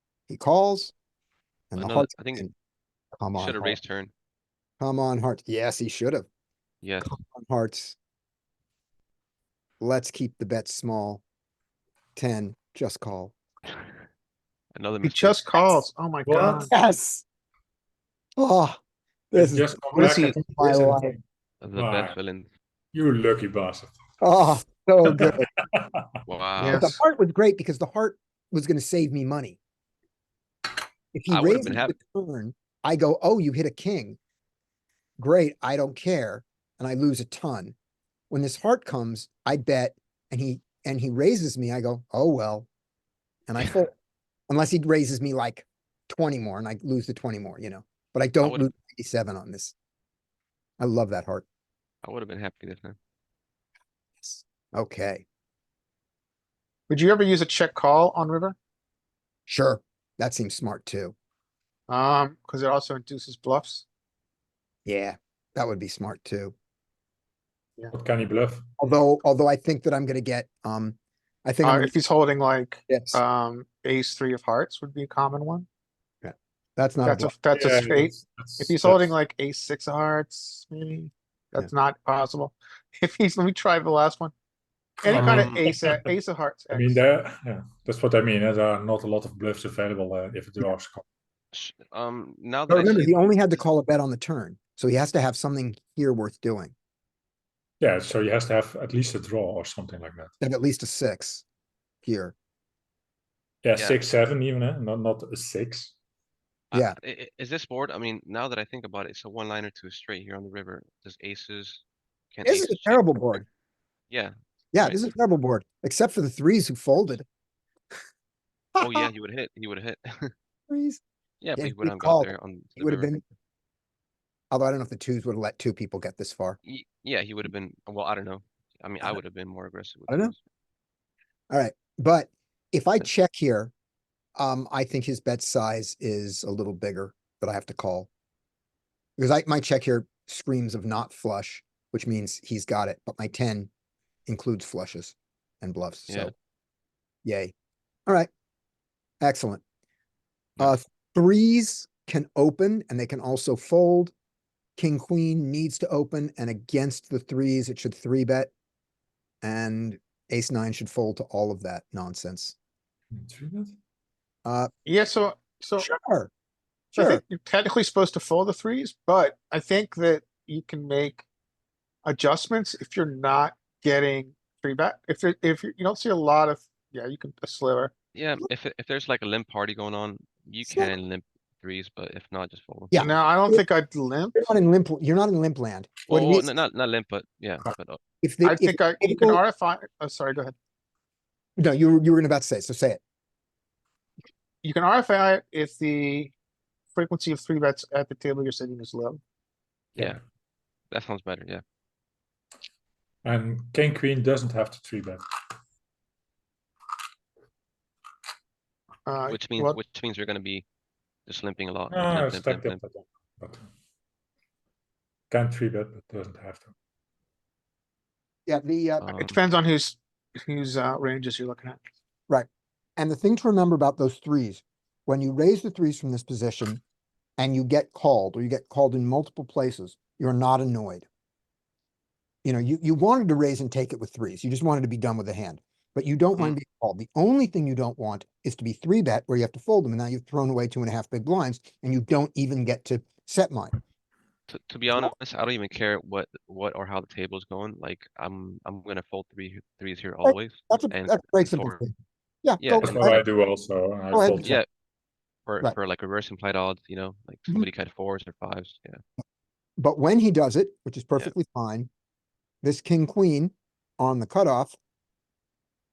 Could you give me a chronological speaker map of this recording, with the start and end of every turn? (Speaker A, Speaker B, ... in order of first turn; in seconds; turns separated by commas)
Speaker A: 0.3-0.9, Speaker A: 1.7-2.5, Speaker B: 1.8-2.5, Speaker A: 3.2-3.8, Speaker B: 3.4-4.1, Speaker A: 4.8-6.3, Speaker B: 6.8-7.2, Speaker A: 7.1-8.0, Speaker A: 9.8-11.2, Speaker A: 12.2-13.3, Speaker B: 14.8-15.8, Speaker C: 15.0-16.7, Speaker D: 16.3-16.7, Speaker A: 16.7-17.2, Speaker A: 18.4-18.8, Speaker A: 19.3-21.2, Speaker D: 19.4-21.2, Speaker C: 20.0-20.4, Speaker B: 21.6-22.5, Speaker D: 21.8-22.2, Speaker D: 22.9-23.9, Speaker A: 24.2-25.5, Speaker D: 25.0-26.1, Speaker B: 26.3-26.9, Speaker C: 26.6-26.9, Speaker A: 26.7-29.6, Speaker A: 31.1-34.2, Speaker B: 31.3-31.9, Speaker A: 35.2-37.8, Speaker A: 38.3-42.7, Speaker A: 43.5-43.9, Speaker A: 44.5-49.8, Speaker B: 48.4-48.7, Speaker A: 50.8-51.5, Speaker B: 52.0-53.0, Speaker A: 54.2-55.2, Speaker C: 56.9-58.6, Speaker A: 59.5-61.1, Speaker C: 61.9-63.9, Speaker A: 64.9-66.5, Speaker D: 67.9-68.7, Speaker A: 68.8-71.9, Speaker C: 71.6-75.7, Speaker A: 72.9-73.2, Speaker A: 76.2-77.3, Speaker C: 77.0-84.3, Speaker D: 77.5-79.1, Speaker C: 85.0-87.0, Speaker D: 85.1-86.0, Speaker B: 85.2-85.7, Speaker D: 86.7-91.0, Speaker B: 91.5-93.6, Speaker A: 92.7-96.8, Speaker D: 97.8-100.3, Speaker A: 100.4-101.5, Speaker A: 102.0-102.3, Speaker D: 103.6-105.9, Speaker B: 106.7-111.8, Speaker B: 112.3-113.5, Speaker A: 112.5-113.5, Speaker B: 114.1-115.1, Speaker A: 114.7-117.2, Speaker A: 118.8-119.1, Speaker B: 118.8-120.3, Speaker A: 120.7-121.0, Speaker B: 121.4-123.2, Speaker A: 121.6-123.2, Speaker A: 124.5-126.6, Speaker B: 126.6-130.4, Speaker A: 130.1-130.3, Speaker A: 131.5-133.7, Speaker A: 134.4-138.1, Speaker A: 139.2-143.7, Speaker A: 144.3-146.3, Speaker A: 147.2-147.5, Speaker A: 149.2-149.6, Speaker A: 150.6-154.1, Speaker A: 154.8-158.5, Speaker A: 159.4-162.6, Speaker D: 163.1-163.8, Speaker A: 164.4-164.7, Speaker C: 164.9-165.9, Speaker A: 165.8-166.3, Speaker A: 166.9-167.2, Speaker C: 166.9-171.2, Speaker C: 172.1-177.9, Speaker B: 178.1-183.1, Speaker A: 180.7-180.9, Speaker A: 182.9-183.6, Speaker C: 183.0-184.4, Speaker A: 184.4-186.5, Speaker B: 186.1-188.0, Speaker A: 188.2-189.4, Speaker C: 188.4-190.6, Speaker A: 191.6-193.0, Speaker C: 194.6-196.3, Speaker C: 196.9-199.2, Speaker B: 199.9-200.2, Speaker B: 200.9-201.6, Speaker D: 203.2-205.2, Speaker C: 209.1-209.8, Speaker B: 209.3-210.7, Speaker B: 211.3-212.8, Speaker D: 211.9-213.7, Speaker D: 215.3-216.7, Speaker A: 218.5-219.1, Speaker B: 219.0-219.4, Speaker C: 219.2-221.8, Speaker A: 222.3-226.8, Speaker A: 227.4-231.1, Speaker A: 232.4-243.7, Speaker B: 244.5-251.8, Speaker A: 250.2-253.2, Speaker B: 252.6-253.2, Speaker D: 252.8-254.6, Speaker A: 254.1-254.5, Speaker B: 254.4-254.7, Speaker B: 255.5-259.0, Speaker A: 259.8-261.9, Speaker A: 262.6-264.8